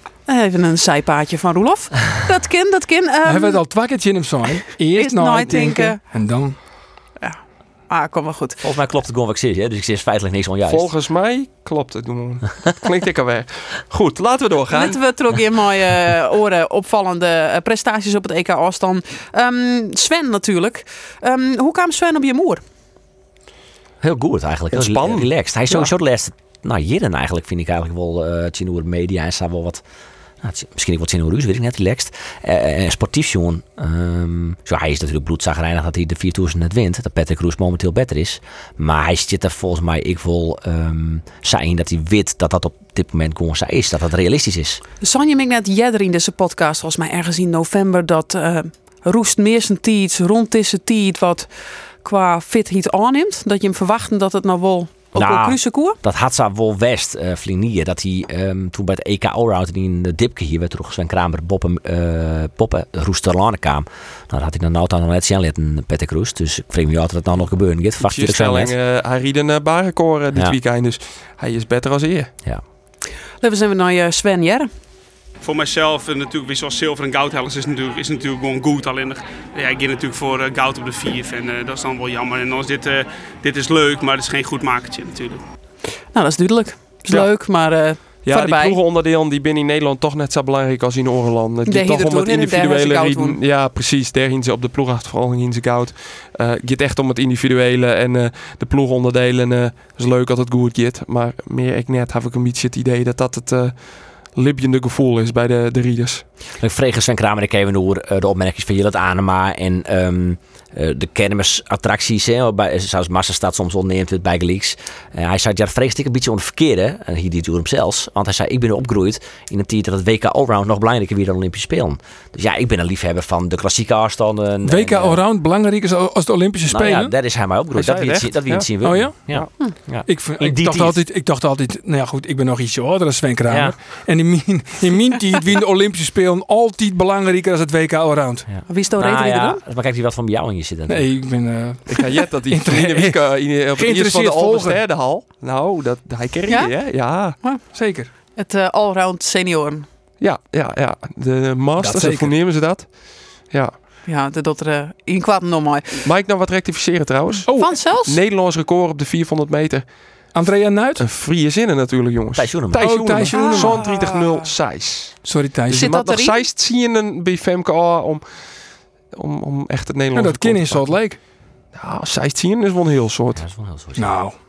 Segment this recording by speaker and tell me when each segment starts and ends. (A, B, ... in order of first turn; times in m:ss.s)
0:00.3-0:03.6 A
0:03.2-0:06.6 B
0:04.9-0:06.0 A
0:07.2-0:08.6 A
0:08.6-0:10.9 C
0:10.7-0:15.0 D
0:14.7-0:22.6 A
0:24.0-0:29.8 C
0:24.7-0:25.9 D
0:30.4-0:44.8 C
0:45.0-0:56.0 A
0:55.2-1:08.8 C
1:08.0-1:12.3 D
1:13.4-1:14.7 A
1:15.4-1:25.4 E
1:26.1-1:28.8 A
1:27.1-1:46.3 D
1:31.7-1:33.4 A
1:46.6-2:05.2 C
2:04.6-2:07.1 B
2:06.7-2:11.0 C
2:07.7-2:09.5 D
2:08.8-2:18.5 B
2:13.5-2:13.8 C
2:18.5-2:21.1 C
2:18.7-2:19.6 A
2:20.9-2:24.8 B
2:21.9-2:27.4 D
2:26.5-2:29.9 A
2:27.7-2:28.1 B
2:30.2-2:33.7 D
2:31.8-2:32.4 B
2:34.1-2:36.1 A
2:36.0-2:40.4 D
2:37.5-2:37.8 B
2:37.6-2:38.2 A
2:40.3-2:41.1 B
2:41.0-2:50.9 D
2:42.4-2:43.3 C
2:42.8-2:43.8 B
2:43.3-2:44.2 A
2:45.2-2:45.9 B
2:45.7-2:46.4 A
2:50.1-2:51.2 B
2:51.7-2:53.4 D
2:53.4-2:54.2 C
2:54.0-2:54.4 B